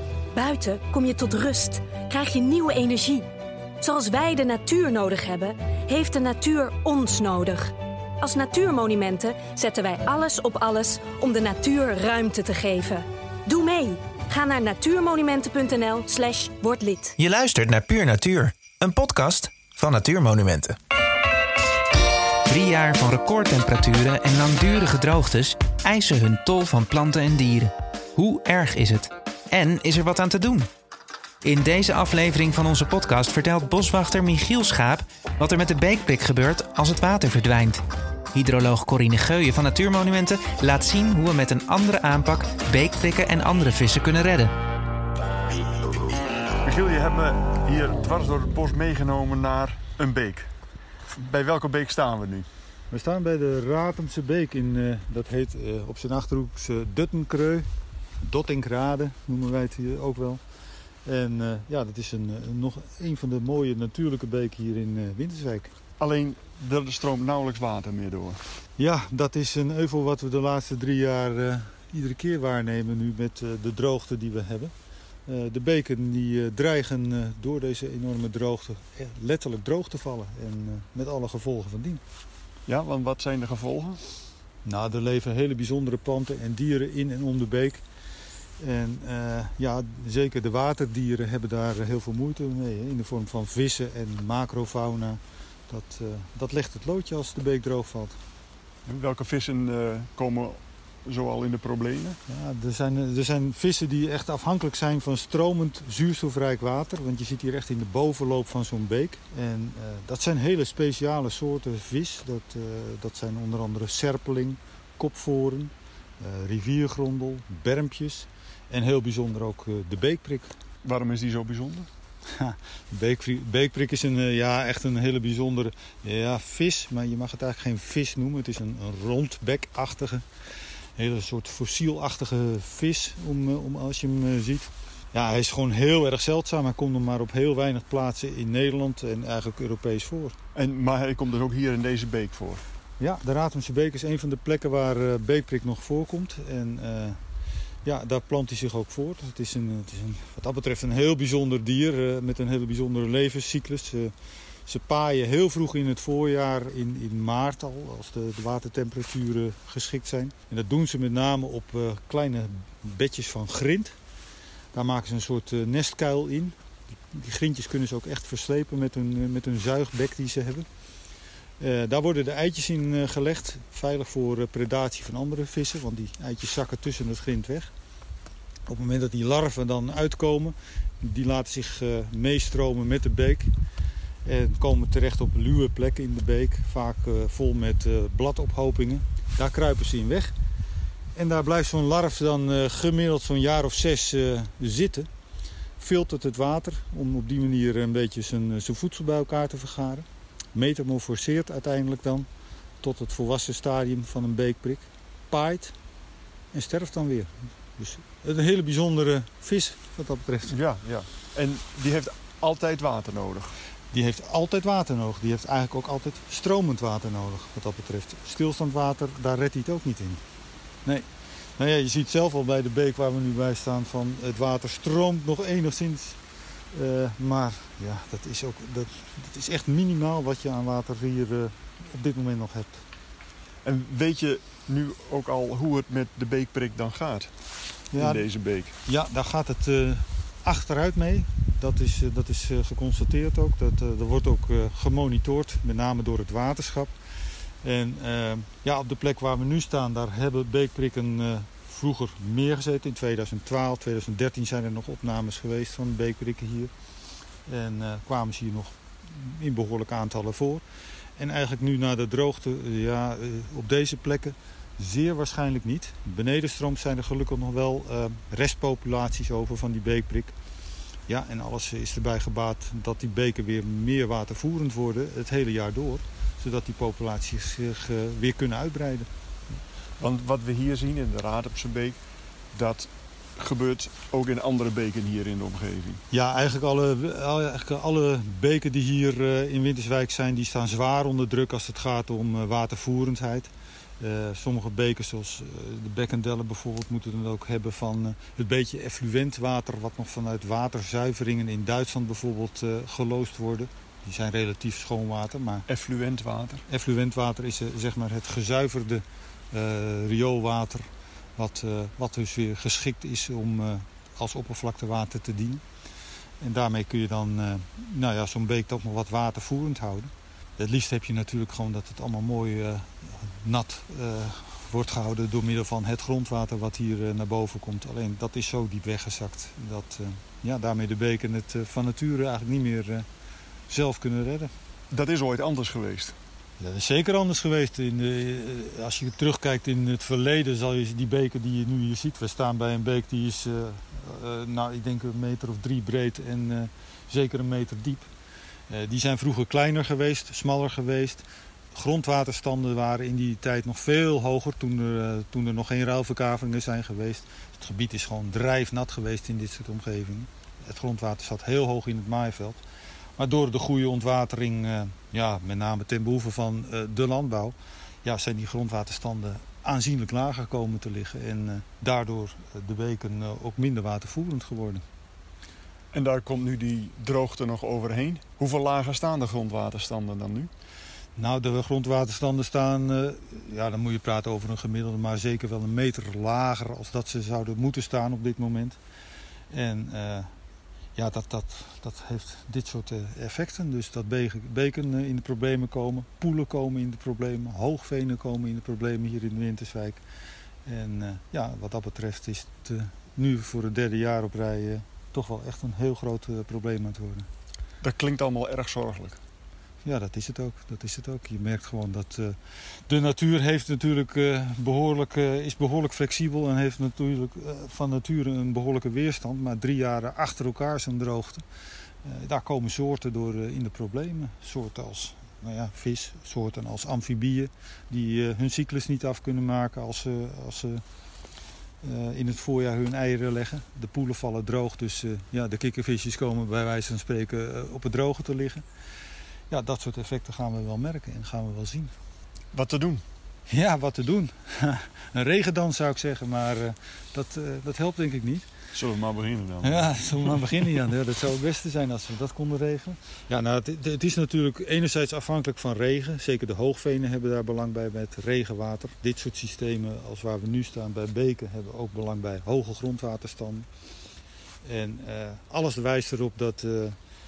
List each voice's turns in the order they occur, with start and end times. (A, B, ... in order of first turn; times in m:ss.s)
0:00.3-0:03.3 A
0:03.8-0:17.2 A
0:17.2-0:20.8 B
0:22.4-0:30.7 B
0:31.4-0:37.8 B
0:38.3-0:44.5 B
0:46.6-0:50.5 C
0:51.2-0:52.4 C
0:52.9-0:57.7 D
0:58.2-1:00.4 D
1:01.0-1:05.7 D
1:06.0-1:08.4 C
1:08.8-1:14.7 D
1:15.2-1:22.0 D
1:22.7-1:24.0 C
1:24.6-1:27.8 D
1:28.6-1:38.2 D
1:38.8-1:42.2 C
1:42.3-2:00.5 D
2:00.8-2:01.9 C
2:02.2-2:10.2 D
2:11.0-2:20.4 D
2:20.5-2:22.6 C
2:23.0-2:27.2 D
2:27.8-2:34.1 D
2:34.6-2:44.0 D
2:44.7-2:46.5 D
2:47.1-2:50.7 D
2:51.6-2:57.7 D
2:58.7-3:03.5 D
3:04.2-3:10.3 D
3:11.1-3:15.1 D
3:15.8-3:22.3 D
3:22.8-3:25.7 D
3:26.5-3:30.6 D
3:30.5-3:33.5 C
3:33.9-3:40.2 D
3:40.8-3:46.2 D
3:46.7-3:52.8 D
3:53.6-3:57.3 C
3:57.9-3:58.2 D
3:58.0-3:58.7 C
3:58.8-4:06.9 D
4:07.6-4:16.7 D
4:17.4-4:20.6 D
4:21.2-4:30.3 D
4:31.1-4:39.1 D
4:40.0-4:42.0 C
4:42.5-4:46.0 C
4:46.1-5:05.6 D
5:05.7-5:06.6 C
5:06.7-5:15.6 D
5:16.4-5:33.0 D
5:33.7-5:34.5 D
5:34.9-5:36.2 C
5:36.6-5:48.1 D
5:48.7-6:02.6 D
6:03.2-6:14.8 D
6:15.9-6:20.5 C
6:21.2-6:28.8 D
6:29.5-6:30.3 D
6:31.0-6:40.0 D
6:40.6-6:47.3 D
6:47.8-6:49.2 C
6:49.8-7:01.4 D
7:02.0-7:10.8 D
7:11.8-7:18.6 D
7:19.5-7:21.9 D
7:22.5-7:23.0 C
7:23.5-7:28.5 D
7:28.7-7:30.5 C
7:29.6-7:43.7 D
7:44.6-7:47.0 D